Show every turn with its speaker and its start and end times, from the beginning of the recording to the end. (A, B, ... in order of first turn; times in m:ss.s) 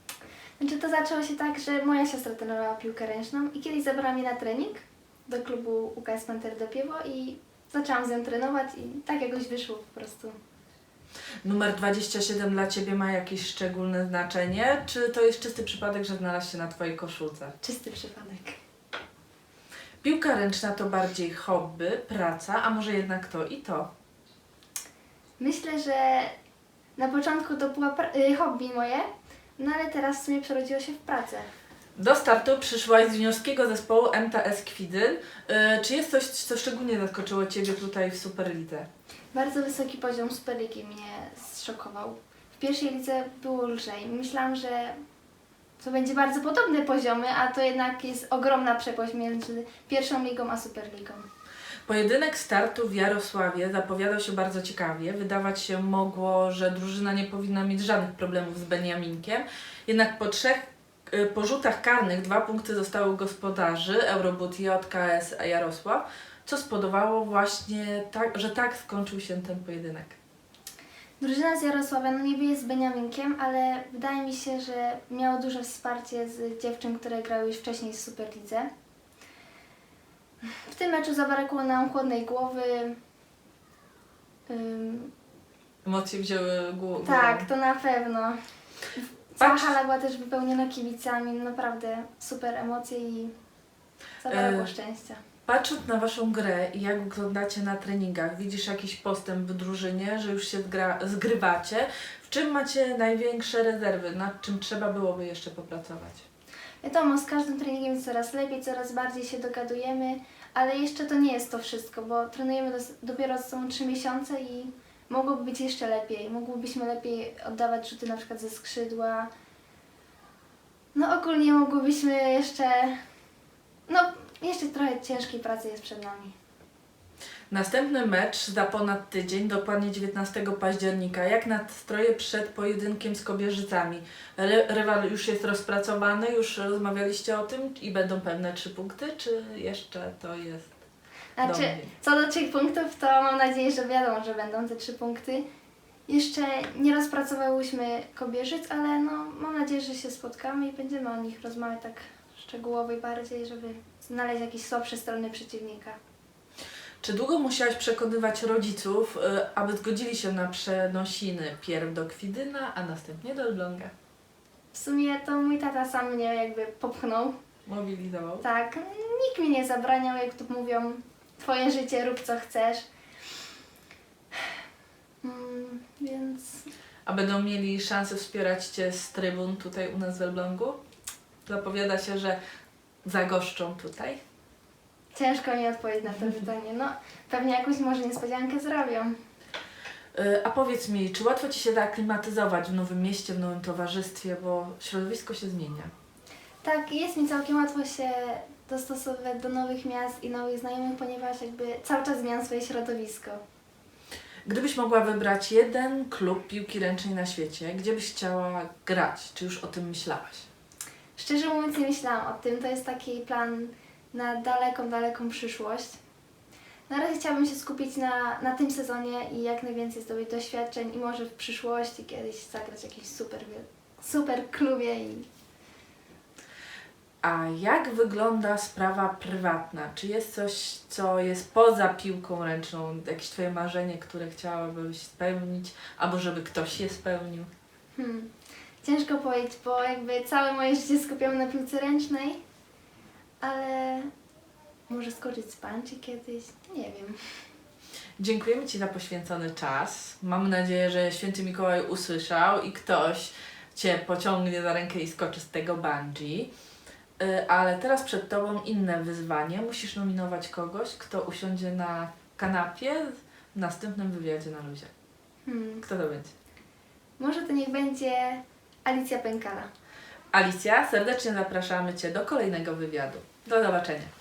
0:00.6-0:10.4 A
0:11.4-0:17.6 B
0:17.6-0:18.6 A
0:20.0-0:23.9 B
0:25.4-0:26.3 A
0:27.0-0:29.1 A
0:29.6-0:31.5 A
0:32.0-0:38.9 B
0:39.3-0:45.0 A
0:45.8-0:51.3 A
0:51.9-1:10.2 B
1:11.2-1:18.7 A
1:20.6-1:23.0 A
1:24.5-1:25.1 A
1:25.8-1:27.5 B
1:27.0-1:28.4 A
1:29.3-1:33.3 A
1:29.4-1:29.7 B
1:34.2-1:35.2 A
1:34.3-1:34.7 B
1:35.5-1:46.2 B
1:46.8-1:59.3 A
2:01.0-2:03.0 A
2:03.9-2:06.3 A
2:07.5-2:20.8 B
2:21.4-2:25.4 A
2:21.4-2:21.9 B
2:26.1-2:36.0 A
2:37.0-2:43.9 B
2:44.7-2:47.4 A
2:47.7-2:48.4 B
2:48.4-2:52.8 A
2:55.2-2:56.7 A
2:57.1-3:00.8 B
3:01.4-3:02.4 B
3:03.0-3:04.2 B
3:05.1-3:09.2 A
3:10.1-3:15.9 B
3:16.6-3:23.4 A
3:24.4-3:30.5 B
3:31.2-3:36.0 A
3:36.9-3:45.3 A
3:47.2-3:57.5 B
3:58.0-3:58.3 A
3:58.8-4:02.4 A
4:03.4-4:04.1 A
4:04.9-4:07.4 A
4:08.2-4:16.5 B
4:17.2-4:24.9 B
4:25.5-4:25.8 A
4:25.8-4:26.3 B
4:27.2-4:29.7 A
4:30.3-4:34.1 B